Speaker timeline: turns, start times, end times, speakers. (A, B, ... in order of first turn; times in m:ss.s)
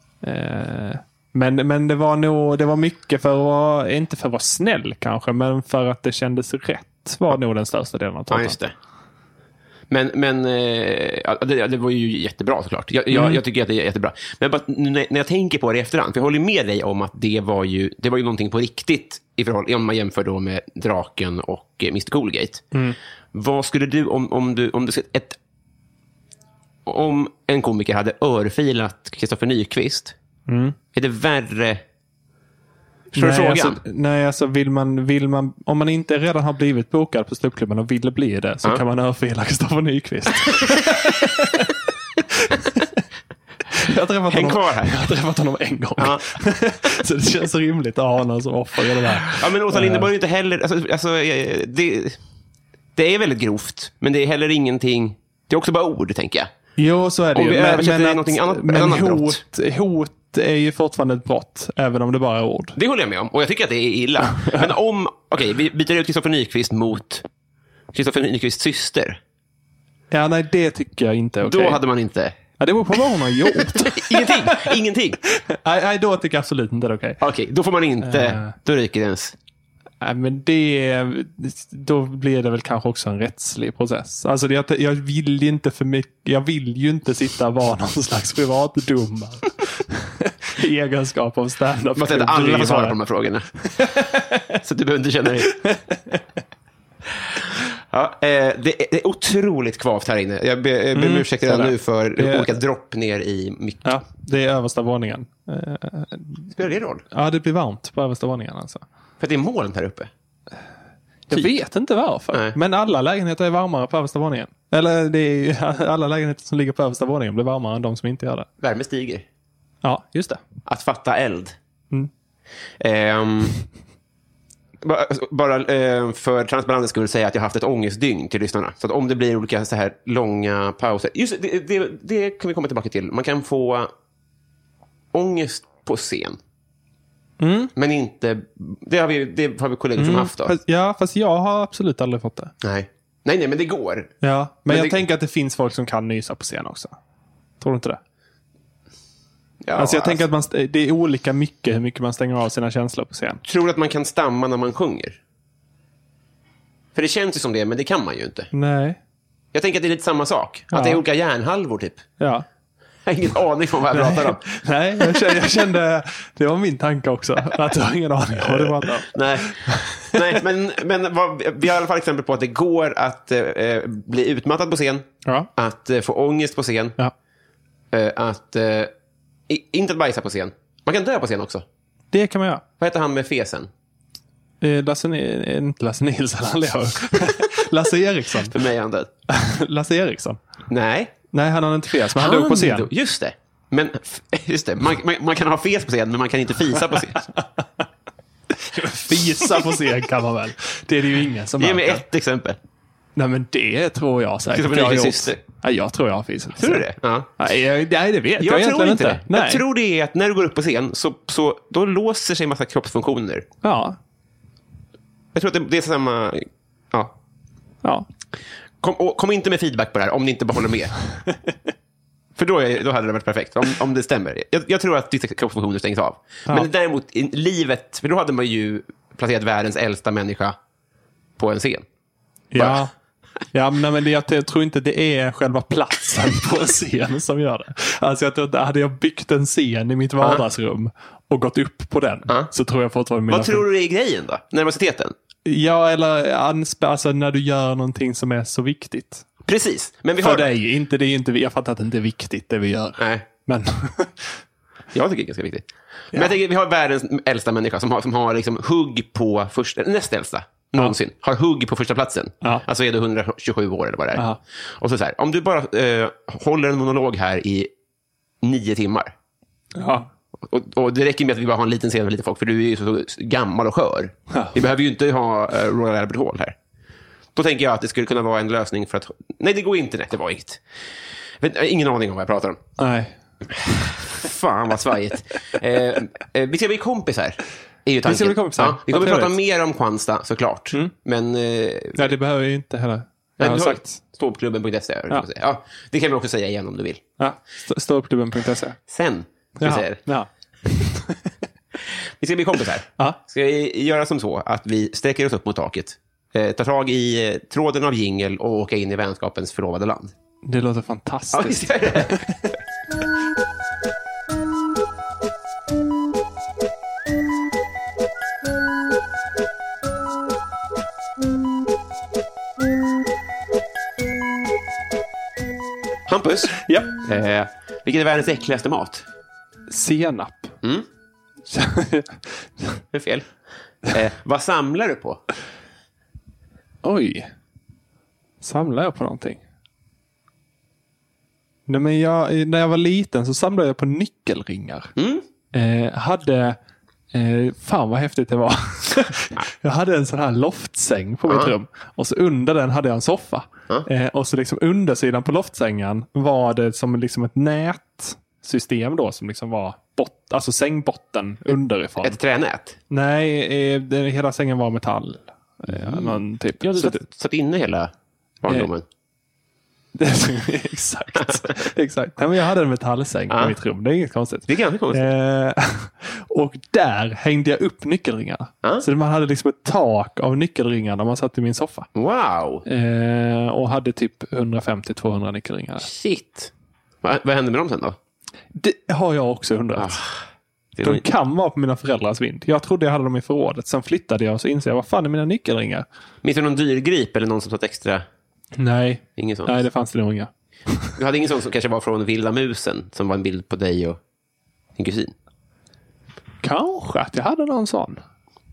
0:00.2-0:08.6 A
0:08.3-0:08.7 B
0:09.9-0:22.6 B
0:13.1-0:13.4 A
0:23.3-0:25.4 B
0:26.9-0:30.2 B
0:30.5-0:30.8 A
0:30.9-0:31.8 B
0:33.1-0:33.8 B
0:33.2-0:42.9 A
0:43.7-0:50.1 A
0:44.3-0:45.0 B
0:46.0-0:46.3 B
0:49.2-0:52.2 B
0:53.0-0:56.5 B
0:56.8-1:02.8 A
0:57.3-0:59.4 B
1:02.8-1:07.2 B
1:04.4-1:04.7 A
1:07.9-1:09.2 B
1:10.1-1:11.8 A
1:11.4-1:12.4 B
1:12.6-1:17.2 A
1:13.5-1:15.2 B
1:17.2-1:19.3 B
1:18.0-1:18.6 A
1:20.0-1:33.0 A
1:32.0-1:33.5 B
1:33.7-1:34.6 A
1:34.6-1:35.6 B
1:35.5-1:36.2 A
1:37.9-1:43.9 B
1:41.0-1:42.5 A
1:43.8-1:46.5 A
1:46.5-1:47.0 B
1:47.1-1:48.8 A
1:49.2-1:50.1 B
1:51.3-1:58.5 A
1:58.6-1:59.2 B
1:59.8-2:00.4 A
2:00.7-2:01.6 B
2:02.8-2:03.6 B
2:04.8-2:13.9 B
2:15.1-2:16.4 B
2:17.4-2:17.7 A
2:17.8-2:20.6 B
2:20.0-2:22.5 A
2:22.6-2:24.1 B
2:24.2-2:27.0 A
2:24.7-2:25.0 B
2:27.6-2:28.0 A
2:29.6-2:30.2 B
2:29.8-2:33.4 A
2:33.4-2:35.2 B
2:37.0-2:38.5 B
2:38.5-2:39.0 A
2:39.5-2:42.0 B
2:40.7-2:41.0 A
2:42.2-2:42.4 A
2:43.1-2:44.4 B
2:43.9-2:50.4 A
2:48.4-2:57.0 B
2:57.9-2:58.9 B
2:59.5-3:01.6 B
3:02.1-3:02.6 A
3:02.8-3:03.7 B
3:04.6-3:08.5 A
3:08.5-3:09.1 B
3:09.3-3:10.4 A
3:10.7-3:11.1 B
3:11.3-3:12.9 A
3:12.2-3:17.2 B
3:18.6-3:22.0 A
3:21.6-3:22.6 B
3:23.2-3:26.9 A
3:24.5-3:25.4 B
3:26.6-3:27.3 B
3:27.4-3:29.6 A
3:28.4-3:33.5 B
3:33.6-3:34.0 A
3:35.3-3:37.1 B
3:38.8-3:41.0 B
3:42.4-3:50.6 B
3:51.4-3:51.8 B
3:52.5-3:52.9 A
3:52.6-3:52.8 B
3:53.5-4:03.6 A
4:03.3-4:05.2 B
4:05.4-4:09.2 A
4:09.5-4:10.5 B
4:10.2-4:14.3 A
4:13.0-4:13.2 B
4:14.9-4:24.3 B
4:24.8-4:27.7 B
4:28.4-4:29.1 B
4:29.8-4:30.1 A
4:30.5-4:36.6 B
4:34.3-4:34.6 A
4:37.4-4:40.6 B
4:41.4-4:42.6 B
4:42.8-4:43.2 A
4:43.6-4:52.1 B
4:48.0-4:49.3 A
4:52.0-4:54.0 A
4:53.4-4:57.0 B
4:57.2-4:58.8 A
4:58.9-5:00.0 B
4:59.6-5:01.3 A
5:02.2-5:10.1 B
5:10.5-5:12.4 A
5:11.3-5:12.3 B
5:26.1-5:29.0 B
5:26.6-5:26.9 A
5:29.7-5:30.5 A
5:31.5-5:32.8 A
5:32.9-5:33.3 B
5:33.9-5:35.2 B
5:36.8-5:37.3 A
5:38.4-5:39.4 A
5:41.7-5:44.9 A
5:45.0-5:45.2 B
5:45.5-5:46.6 A
5:47.1-6:02.2 A
5:51.3-5:51.5 B
6:02.0-6:02.8 B
6:02.9-6:07.0 A
6:05.7-6:07.9 B
6:08.4-6:08.8 B
6:10.0-6:21.9 A
6:13.3-6:13.6 B
6:14.5-6:15.1 B
6:22.0-6:22.6 B
6:22.7-6:25.9 A
6:25.8-6:26.5 B
6:27.0-6:28.0 B
6:28.6-6:30.0 A
6:29.8-6:30.2 B
6:30.8-6:31.0 B
6:30.8-6:35.9 A
6:36.2-6:38.0 B
6:38.6-6:40.9 A
6:39.2-6:39.5 B
6:41.0-6:44.0 B
6:44.8-6:45.1 B
6:46.4-6:48.0 A